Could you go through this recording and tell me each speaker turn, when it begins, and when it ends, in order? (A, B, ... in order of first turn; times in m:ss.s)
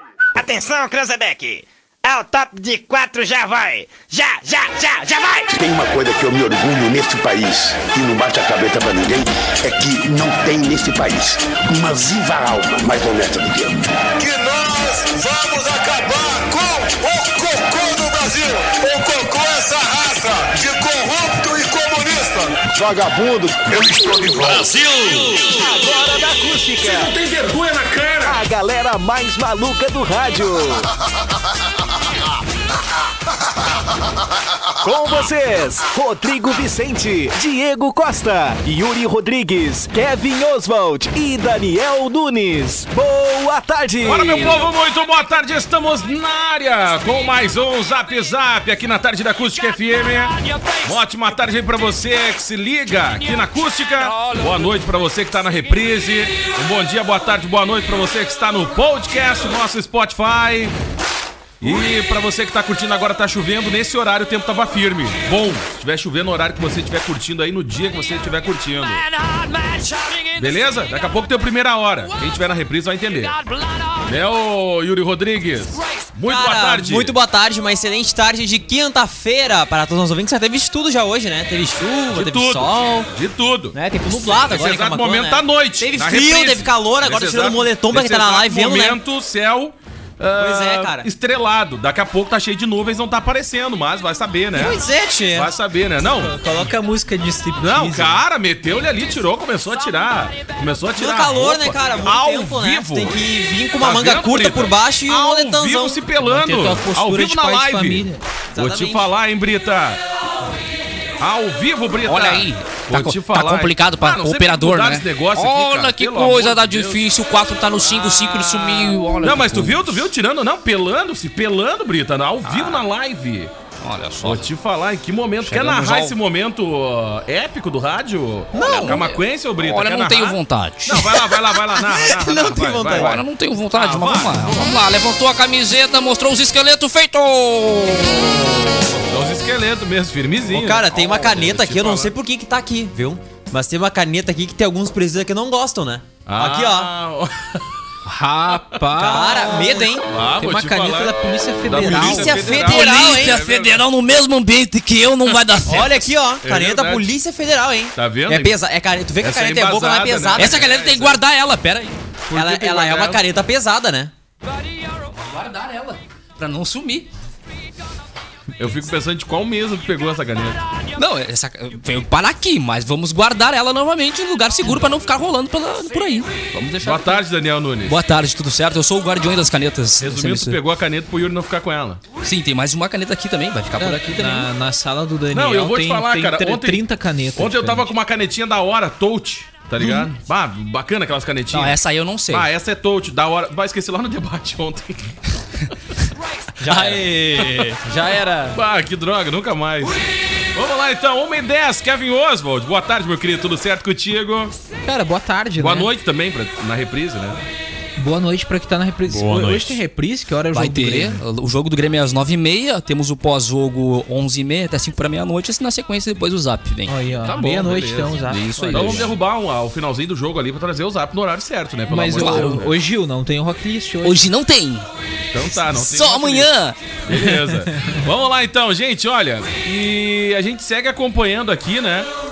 0:00.4-0:05.5 A
0:05.5-0:13.9 B
0:14.2-0:25.5 C
0:23.1-0:24.7 B
0:25.2-0:27.2 D
0:26.8-0:28.4 E
0:28.2-0:30.9 D
0:34.8-0:44.6 D
0:44.0-1:00.8 E
0:54.1-0:54.6 F
1:01.6-1:09.0 E
1:10.4-1:13.4 E
1:14.0-1:17.2 E
1:16.3-1:23.1 G
1:22.1-1:36.7 E
1:23.7-1:29.0 G
1:30.4-1:31.1 G
1:34.5-1:35.5 G
1:36.2-1:38.2 H
1:37.6-1:43.2 E
1:41.0-1:46.0 G
1:43.8-1:50.0 E
1:46.2-1:48.2 H
1:48.5-1:49.1 G
1:51.2-1:57.1 E
1:52.0-2:00.0 F
1:59.2-2:03.5 E
2:02.4-2:02.8 F
2:03.8-2:04.5 F
2:04.2-2:14.8 E
2:05.4-2:06.2 F
2:08.5-2:09.1 G
2:08.6-2:11.2 F
2:11.7-2:13.2 G
2:12.8-2:18.7 F
2:18.9-2:22.1 E
2:20.5-2:26.9 G
2:26.2-2:27.6 E
2:28.1-2:29.9 H
2:28.8-2:29.2 E
2:29.0-2:30.1 G
2:30.0-2:31.2 E
2:30.4-2:32.5 H
2:31.7-2:33.8 E
2:31.8-2:33.4 G
2:32.5-2:36.1 F
2:35.7-2:40.6 G
2:36.4-2:37.1 E
2:38.0-2:38.6 E
2:39.2-2:41.2 E
2:40.4-2:42.0 F
2:42.3-2:43.2 E
2:42.3-2:44.1 G
2:45.2-2:47.1 F
2:48.6-2:50.6 E
2:51.0-2:57.2 F
2:56.8-2:58.0 E
2:57.9-3:00.6 F
3:00.0-3:02.0 E
3:02.2-3:04.5 F
3:03.8-3:07.9 H
3:05.3-3:06.8 E
3:07.4-3:15.1 E
3:09.8-3:10.1 F
3:11.5-3:12.5 F
3:16.6-3:18.6 G
3:16.7-3:17.6 F
3:17.4-3:17.7 E
3:18.5-3:20.0 E
3:20.6-3:24.5 E
3:24.8-3:25.9 H
3:25.6-3:27.4 E
3:28.0-3:31.2 H
3:29.1-3:29.8 E
3:30.5-3:37.0 F
3:36.9-3:39.1 H
3:37.2-3:42.8 E
3:38.2-3:39.1 F
3:41.9-3:44.2 H
3:42.2-3:42.6 F
3:44.0-3:44.9 F
3:45.3-3:46.5 E
3:45.5-3:47.0 F
3:47.1-3:52.1 E